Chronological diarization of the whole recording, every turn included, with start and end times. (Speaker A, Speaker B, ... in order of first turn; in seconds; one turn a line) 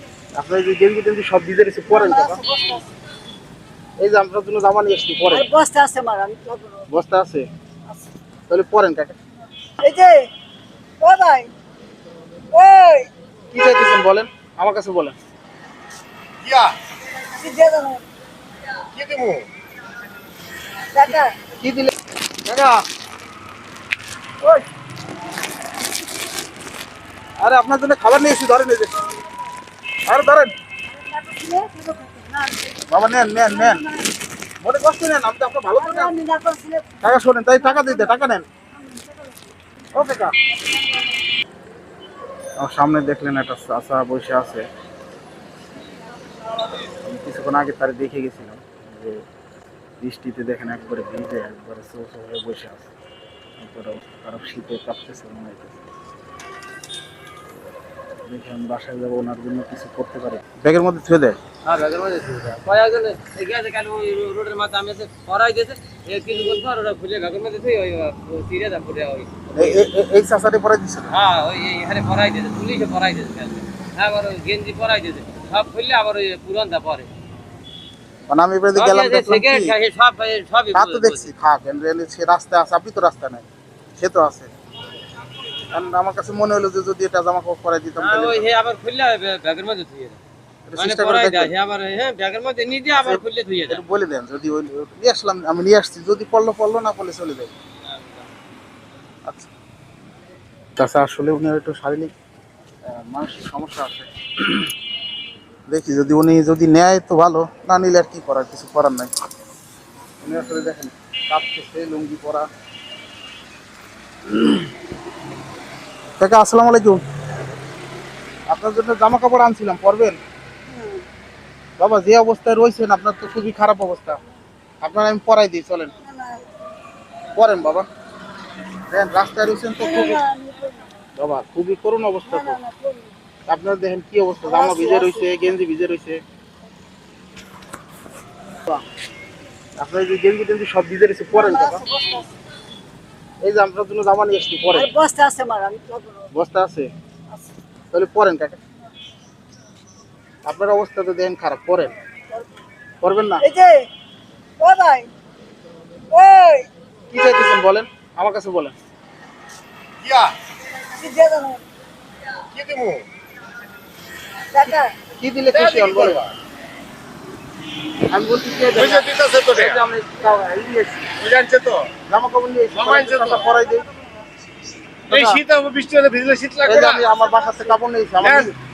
Speaker A: 0.3-2.4
Speaker B: 1.9-2.9
Speaker A: 4.0-5.5
Speaker B: 5.3-6.8
Speaker A: 6.9-7.5
Speaker A: 8.5-9.2
Speaker B: 9.8-10.3
Speaker B: 11.0-11.5
Speaker B: 12.5-13.1
Speaker A: 13.5-15.2
Speaker C: 16.4-16.8
Speaker B: 17.3-18.0
Speaker C: 18.9-19.5
Speaker B: 20.9-21.3
Speaker A: 21.0-21.9
Speaker A: 22.4-22.8
Speaker A: 27.4-28.9
Speaker A: 30.1-30.5
Speaker B: 30.9-32.8
Speaker A: 32.9-33.8
Speaker B: 33.4-34.1
Speaker A: 34.6-36.1
Speaker B: 35.7-37.0
Speaker A: 37.0-38.5
Speaker B: 37.6-38.1
Speaker B: 38.8-39.4
Speaker A: 39.9-40.3
Speaker A: 42.6-44.6
Speaker A: 46.9-49.2
Speaker A: 50.0-52.9
Speaker A: 53.6-55.8
Speaker A: 58.3-61.4
Speaker D: 61.6-69.9
Speaker A: 69.5-71.1
Speaker D: 71.1-77.1
Speaker A: 78.3-79.7
Speaker D: 78.7-81.3
Speaker A: 80.7-83.5
Speaker A: 84.0-84.5
Speaker A: 85.7-88.5
Speaker D: 88.0-90.2
Speaker A: 90.7-91.5
Speaker D: 90.8-93.8
Speaker A: 92.9-97.5
Speaker D: 97.9-98.3
Speaker A: 100.8-102.1
Speaker A: 102.9-104.7
Speaker A: 105.7-109.1
Speaker A: 110.2-112.5
Speaker A: 116.2-117.0
Speaker A: 118.5-120.2
Speaker B: 120.7-121.0
Speaker A: 121.8-124.2
Speaker A: 124.8-125.9
Speaker B: 126.0-126.4
Speaker A: 127.3-127.9
Speaker A: 128.9-130.2
Speaker B: 129.8-130.9
Speaker A: 131.2-132.6
Speaker B: 132.3-133.1
Speaker A: 133.5-136.2
Speaker B: 134.4-135.3
Speaker A: 139.8-141.8
Speaker B: 141.3-142.3
Speaker A: 143.4-144.9
Speaker B: 144.7-146.3
Speaker A: 146.3-146.9
Speaker A: 147.9-148.6
Speaker A: 150.4-151.9
Speaker A: 153.0-153.4
Speaker B: 153.4-153.9
Speaker B: 154.6-155.1
Speaker B: 156.1-156.7
Speaker A: 157.1-158.8
Speaker C: 160.0-160.3
Speaker B: 160.9-161.6
Speaker C: 162.5-163.1
Speaker B: 164.5-164.9
Speaker A: 164.6-166.2
Speaker C: 165.5-166.3
Speaker A: 168.1-171.1
Speaker C: 168.7-169.8
Speaker C: 171.2-171.9
Speaker A: 172.1-173.8
Speaker C: 172.7-173.4
Speaker A: 175.1-175.4
Speaker C: 175.1-177.0
Speaker A: 176.6-178.5
Speaker B: 177.1-177.6
Speaker C: 178.2-178.5